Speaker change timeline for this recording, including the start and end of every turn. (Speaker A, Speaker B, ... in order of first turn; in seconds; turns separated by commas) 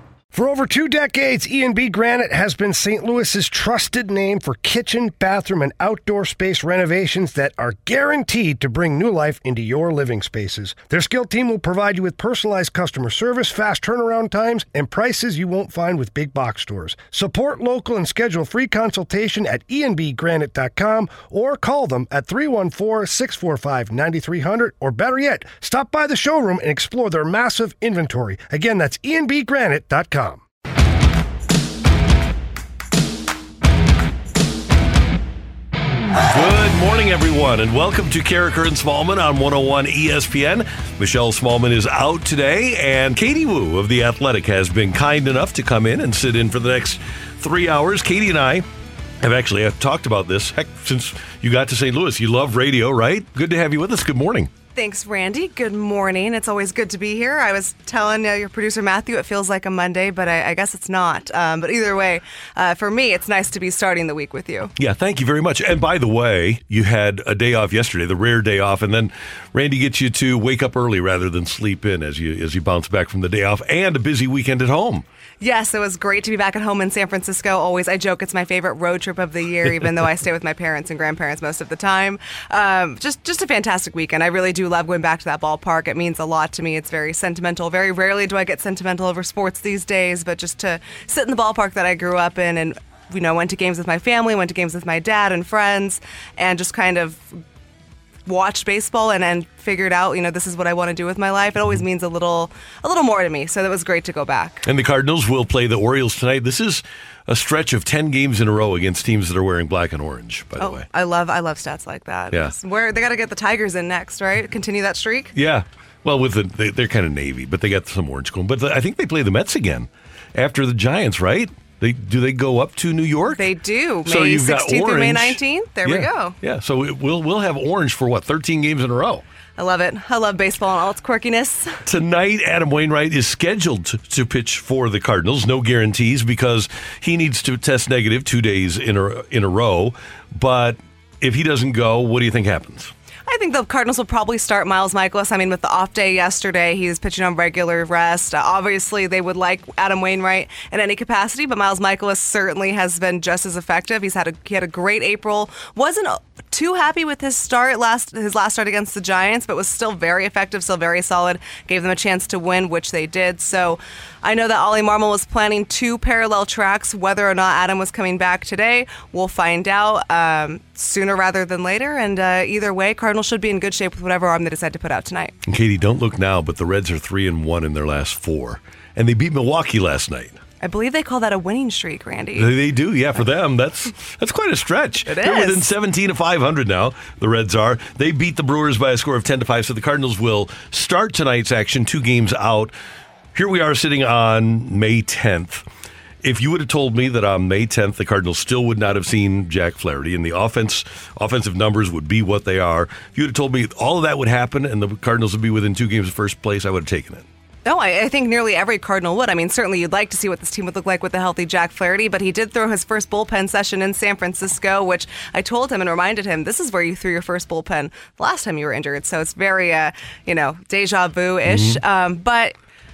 Speaker A: 0.3-30.4, Speaker B: 36.3-48.6, Speaker B: 49.2-54.5, Speaker C: 54.7-64.7, Speaker B: 64.8-75.0, Speaker C: 75.4-97.4, Speaker C: 98.2-104.6, Speaker B: 104.6-110.8, Speaker C: 110.6-115.3, Speaker B: 115.3-123.5, Speaker C: 123.3-126.4, Speaker B: 124.0-129.2, Speaker C: 129.6-131.8, Speaker B: 131.8-142.9, Speaker C: 143.3-175.3, Speaker B: 175.4-180.4, Speaker C: 180.6-182.5, Speaker B: 182.3-192.7, Speaker C: 185.1-185.7, Speaker B: 193.3-195.7, Speaker B: 196.2-207.2, Speaker C: 207.6-222.5, Speaker B: 221.4-221.8